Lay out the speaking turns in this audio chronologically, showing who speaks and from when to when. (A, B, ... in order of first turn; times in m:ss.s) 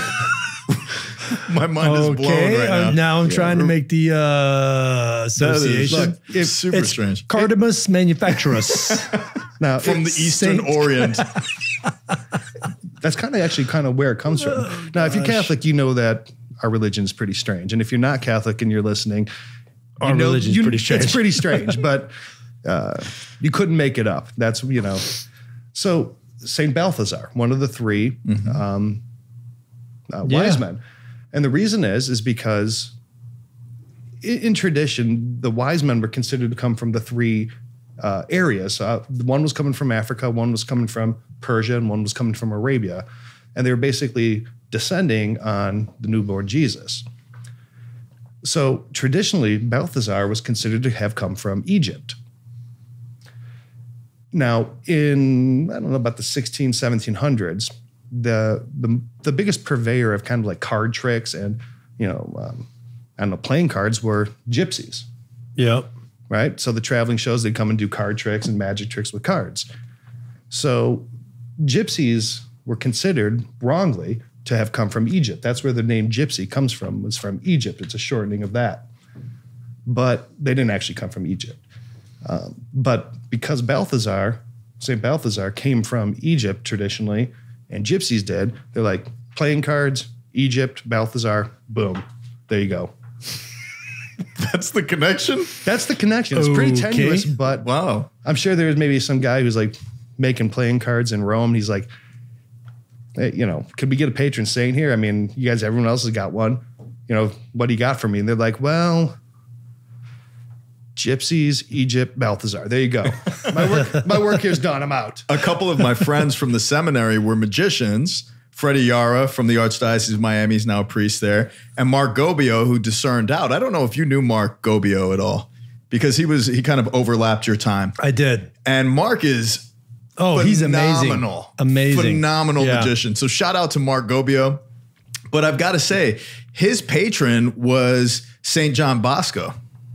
0:01.3-0:03.7 A
0:01.8-0:09.2 B
0:05.4-0:07.5 A
0:05.9-0:06.6 C
0:08.3-0:11.4 A
0:09.6-0:10.5 C
0:10.2-0:11.4 B
0:13.0-0:19.3 C
0:14.4-0:15.5 B
0:20.0-0:21.7 B
0:20.0-0:22.1 C
0:22.6-0:25.2 C
0:25.7-0:29.0 C
0:28.3-0:28.6 A
0:30.1-0:30.8 C
0:30.3-0:30.6 B
0:31.3-0:32.9 C
0:34.2-0:47.0 C
0:48.4-0:52.2 C
0:54.3-1:02.7 C
1:03.2-1:05.1 C
1:05.6-1:05.9 B
1:06.3-1:09.7 C
1:10.5-1:11.1 C
1:11.6-1:18.9 C
1:19.9-1:21.6 C
1:22.2-1:32.9 C
1:34.4-1:35.5 A
1:35.6-1:37.7 C
1:36.3-1:37.3 B
1:37.6-1:38.1 A
1:38.2-1:41.9 C
1:43.2-1:49.2 C
1:51.0-1:55.3 C
1:55.3-2:08.0 A
2:08.0-2:08.5 B
2:08.6-2:09.7 A
2:10.2-2:12.9 B
2:10.4-2:14.6 A
2:10.4-2:11.4 C
2:15.3-2:19.5 A